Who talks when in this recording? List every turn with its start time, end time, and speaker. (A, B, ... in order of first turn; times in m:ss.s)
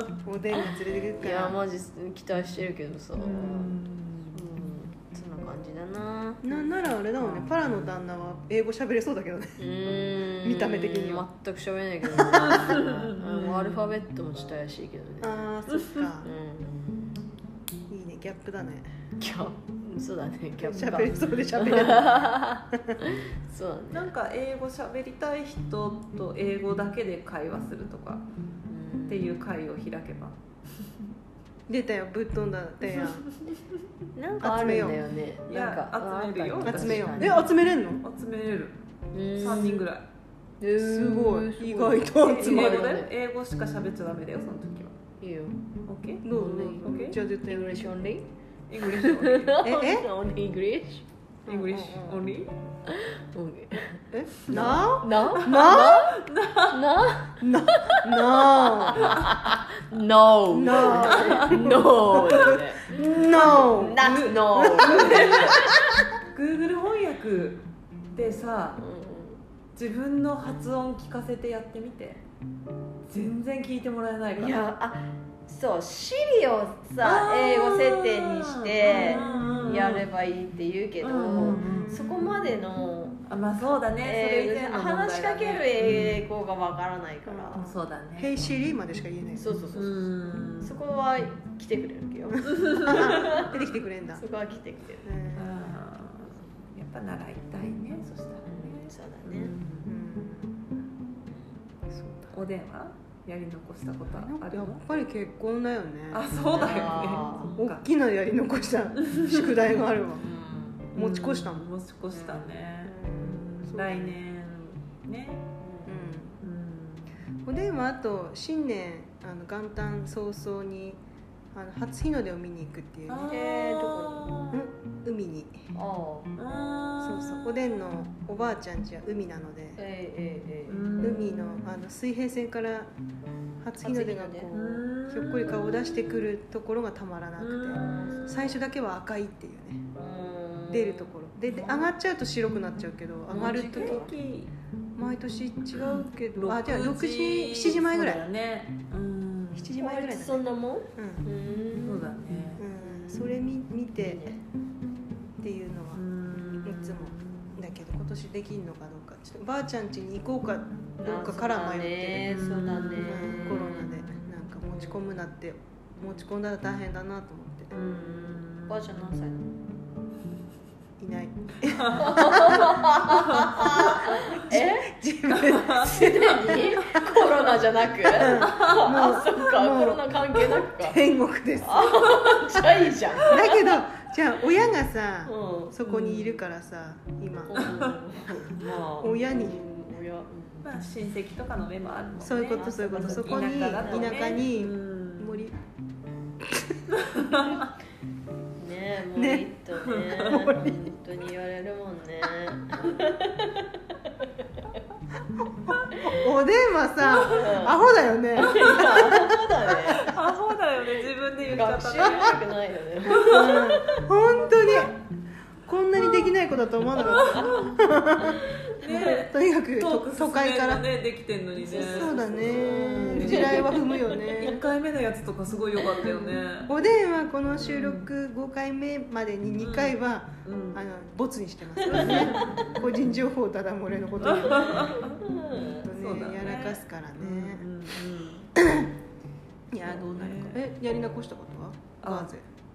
0:00.2-0:01.6 A
0:01.2-0:03.8 B
0:03.2-0:04.4 C
0:04.3-0:07.5 B
0:06.4-0:09.6 A
0:09.6-0:15.4 B
0:10.4-0:11.3 A
0:12.3-0:13.9 C
0:15.2-0:16.3 A
0:16.2-0:17.0 B
0:17.9-0:18.9 A
0:19.2-0:24.1 B
0:20.6-0:23.0 A
0:23.9-0:28.2 C
0:28.7-0:29.3 B
0:29.1-0:30.4 C
0:31.7-0:33.3 A
0:34.2-0:37.5 B
0:34.4-0:35.0 A
0:35.5-0:37.4 C
0:36.6-0:38.0 A
0:38.0-0:38.8 C
0:39.1-0:39.8 B
0:39.4-0:40.1 C
0:40.6-0:43.1 B
0:40.8-0:42.9 A
0:42.2-0:45.0 C
0:45.2-0:45.6 B
0:45.9-0:47.2 C
0:46.2-0:47.9 A
0:46.3-0:48.3 B
0:48.7-0:49.6 C
0:48.8-0:51.1 B
0:49.6-0:50.1 A
0:51.5-0:52.2 A
0:51.5-0:52.5 C
0:52.9-1:06.1 B
0:54.1-0:56.1 A
0:55.7-0:56.8 C
0:57.4-0:59.2 A
1:00.5-1:06.0 A
1:00.8-1:01.7 C
1:03.3-1:05.7 C
1:06.3-1:07.6 C
1:08.1-1:08.8 C
1:08.8-1:09.4 B
1:09.8-1:12.2 C
1:13.1-1:14.6 C
1:14.3-1:27.7 B
1:17.0-1:20.1 C
1:18.8-1:19.4 A
1:21.0-1:22.0 C
1:21.6-1:22.1 A
1:23.3-1:26.3 C
1:27.3-1:29.5 A
1:27.6-1:28.5 C
1:29.4-1:30.1 B
1:29.7-1:30.8 C
1:30.6-1:35.4 B
1:32.3-1:34.3 A
1:32.5-1:33.0 C
1:35.0-1:35.6 A
1:35.4-1:39.9 C
1:38.5-1:39.6 B
1:39.8-1:40.7 A
1:41.9-1:42.4 A
1:42.3-1:44.8 C
1:44.1-1:46.3 A
1:46.1-1:47.8 C
1:46.5-1:47.6 B
1:47.6-1:50.2 A
1:49.0-1:49.4 C
1:50.2-1:50.9 B
1:50.9-1:51.7 A
1:50.9-1:55.5 C
1:52.1-1:52.5 B
1:52.8-1:54.2 A
1:55.6-1:56.0 B
1:55.9-1:56.4 A
1:56.4-1:57.2 C
1:57.4-2:01.0 A
2:01.5-2:03.3 A
2:03.1-2:04.6 C
2:03.2-2:04.3 B
2:04.5-2:05.7 A
2:05.7-2:06.3 B
2:06.4-2:07.7 C
2:07.0-2:09.8 A
2:09.8-2:11.1 B
2:10.7-2:11.6 C
2:11.0-2:12.9 A
2:13.6-2:19.9 A
2:13.8-2:14.5 B
2:14.5-2:16.2 C
2:17.4-2:18.5 C
2:17.7-2:18.5 B
2:20.0-2:21.9 B
2:20.7-2:24.1 A
2:23.3-2:24.2 B
2:23.3-2:24.5 C
2:25.0-2:28.3 A
2:25.8-2:29.7 C
2:29.6-2:31.3 A
2:29.8-2:32.1 B
2:31.8-2:32.6 C
2:32.6-2:34.3 A
2:32.8-2:33.3 B
2:34.0-2:34.4 B
2:35.4-2:47.7 A
2:36.0-2:37.7 C
2:41.0-2:44.2 B
2:42.3-2:44.0 C
2:46.0-2:46.2 B
2:47.7-2:49.0 C
2:47.7-2:49.5 B
2:51.0-2:52.9 A
2:51.7-2:52.2 C
2:51.9-2:55.0 B
2:53.1-2:53.8 C
2:53.6-2:57.2 A
2:55.3-2:56.0 C
2:55.6-3:01.0 B
2:58.0-3:02.1 A
2:58.4-2:59.0 C
3:01.6-3:03.4 B
3:03.2-3:07.6 A
3:05.3-3:06.2 B
3:07.5-3:10.7 B
3:07.6-3:08.0 C
3:09.0-3:09.7 A
3:10.6-3:15.5 C
3:12.2-3:15.6 A
3:12.5-3:14.3 B
3:16.4-3:16.8 A
3:16.9-3:17.7 C
3:18.6-3:24.8 B
3:19.2-3:19.5 A
3:19.9-3:20.4 C
3:20.2-3:21.0 A
3:25.4-3:30.0 A
3:27.2-3:27.8 B
3:27.2-3:27.5 C
3:28.4-3:30.1 B
3:28.5-3:29.0 C
3:29.9-3:32.4 C
3:31.4-3:34.0 B
3:33.1-3:35.0 A
3:33.2-3:33.5 C
3:35.6-3:40.9 A
3:37.0-3:37.8 C
3:37.1-3:37.6 B
3:38.2-3:38.5 B
3:38.3-3:43.7 C
3:41.6-3:44.6 B
3:41.7-3:44.6 A
3:44.4-3:46.7 C
3:45.8-3:46.4 B
3:46.7-3:57.7 A
3:47.6-3:48.1 C
3:49.6-3:50.8 C
3:51.8-3:52.8 B
3:51.9-3:52.7 C
3:54.2-3:55.2 C
3:54.6-3:55.9 B
3:55.8-3:58.5 C
3:58.6-3:58.9 A
3:59.7-4:02.4 A
3:59.8-4:00.6 C
4:02.0-4:02.3 C